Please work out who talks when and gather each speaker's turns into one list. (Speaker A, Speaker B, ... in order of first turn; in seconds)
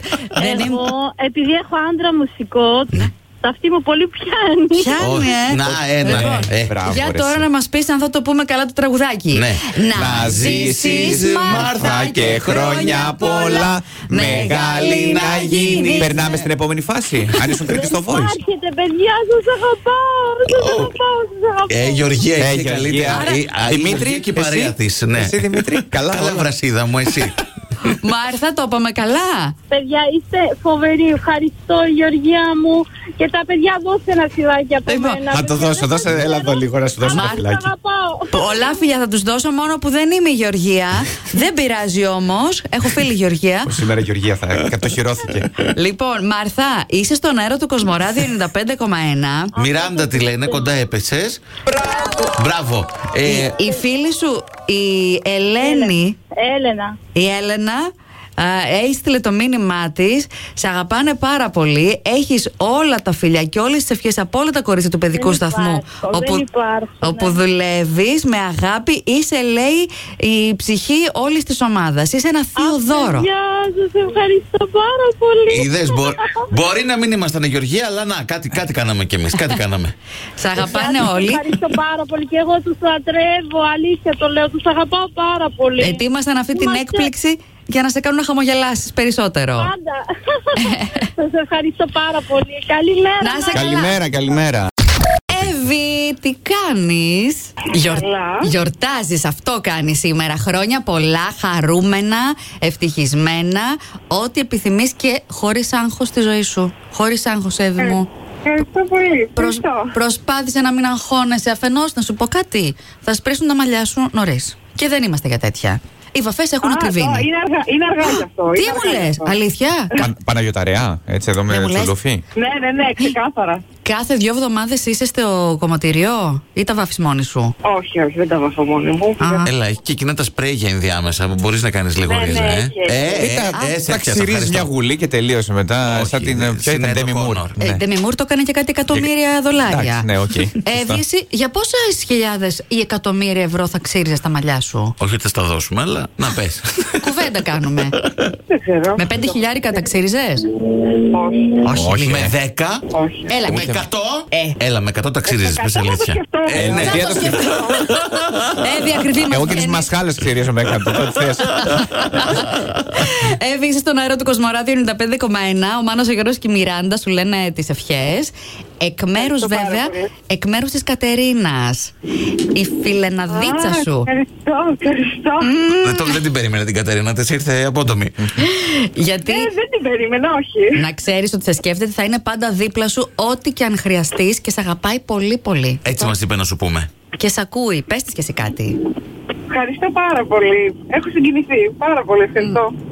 Speaker A: 0.1-0.9, 4.7-11.8, 13.2-16.4, 23.1-23.4, 27.9-29.5, 34.9-35.2, 37.1-37.4, 38.3-43.7, 45.7-49.5, 53.2-56.2, 57.1-66.5, 67.0-73.3, 80.4-81.4, 85.8-89.7, 90.6-91.1, 93.2-93.9, 95.3-108.1, 109.4-117.3, 118.0-120.0, 121.5-121.9, 123.8-127.5, 129.2-129.5, 133.5-133.8, 137.6-140.1, 140.6-144.9, 147.0-147.9, 148.9-150.5, 151.7-152.3, 153.3-154.6, 158.6-159.9, 161.6-171.9, 172.5-174.1, 175.4-176.2, 178.4-179.5, 180.8-186.1, 187.2-188.8
Speaker B: 0.3-5.3, 17.6-22.1, 29.7-38.8, 49.5-50.8, 55.6-57.0, 65.1-67.4, 72.6-76.5, 80.5-87.1, 89.6-93.9
Speaker C: 5.0-6.8, 9.3-16.4, 20.5-20.9, 21.7-27.9, 49.5-51.4, 52.4-53.6, 75.5-79.9, 129.4-134.7, 135.8-137.5, 145.0-147.3, 148.0-148.3, 152.0-152.9, 153.4-158.4, 175.8-178.4, 185.8-186.9
Speaker D: 5.7-7.5, 9.9-18.4, 22.4-26.5, 35.3-37.7, 43.7-45.5, 93.5-94.7, 120.0-122.2, 133.1-137.8, 139.6-141.0, 151.7-152.3, 156.5-157.6, 159.3-161.8
Speaker E: 97.8-98.5, 107.8-109.9, 116.6-119.4, 122.4-123.6, 127.6-129.5, 132.0-133.1, 148.5-149.4, 151.1-151.6, 152.9-153.3, 155.2-158.3, 169.2-170.1, 173.3-175.6, 179.2-180.8, 189.5-192.7